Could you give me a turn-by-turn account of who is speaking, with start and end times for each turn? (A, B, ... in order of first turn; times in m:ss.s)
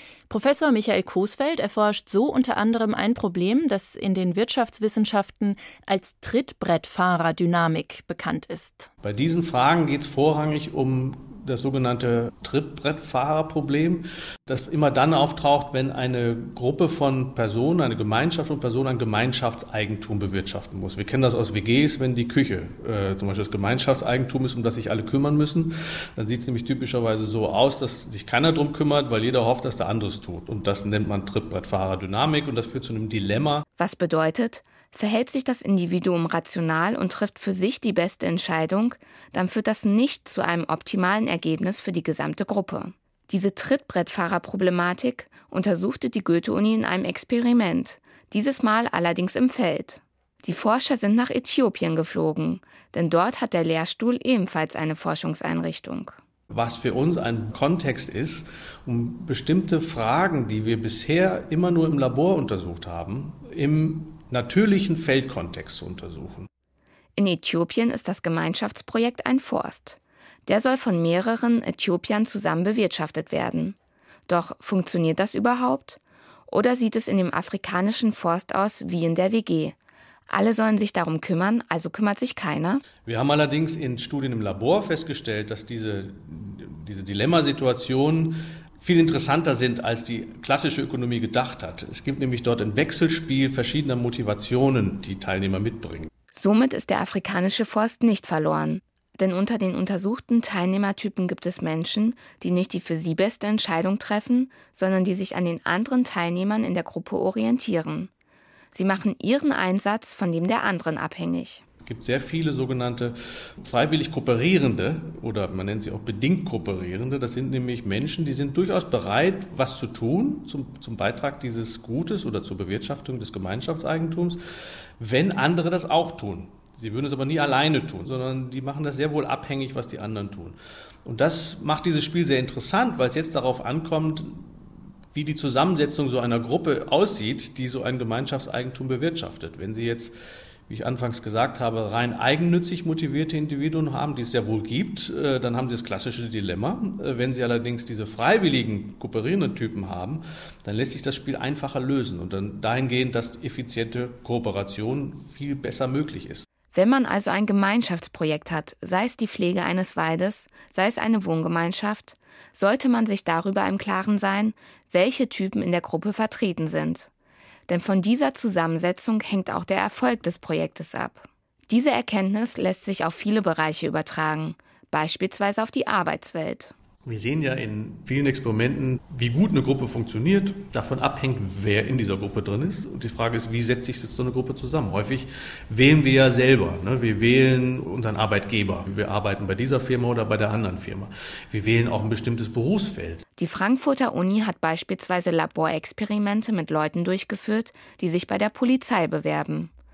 0:00.3-0:08.9 A
0:09.0-0:33.6 B
0:33.8-0:56.2 C
0:56.5-1:06.5 B
1:07.2-1:13.8 C
1:14.3-1:19.8 C
1:20.3-1:22.8 C
1:23.0-1:36.1 B
1:36.3-1:48.1 C
1:48.7-1:51.6 C
1:51.8-2:04.4 B
2:05.0-2:14.6 B
2:15.1-2:20.1 B
2:20.7-2:36.5 B
2:36.7-2:47.1 C
2:47.7-2:56.7 C
2:57.1-3:13.2 B
3:13.4-3:19.7 C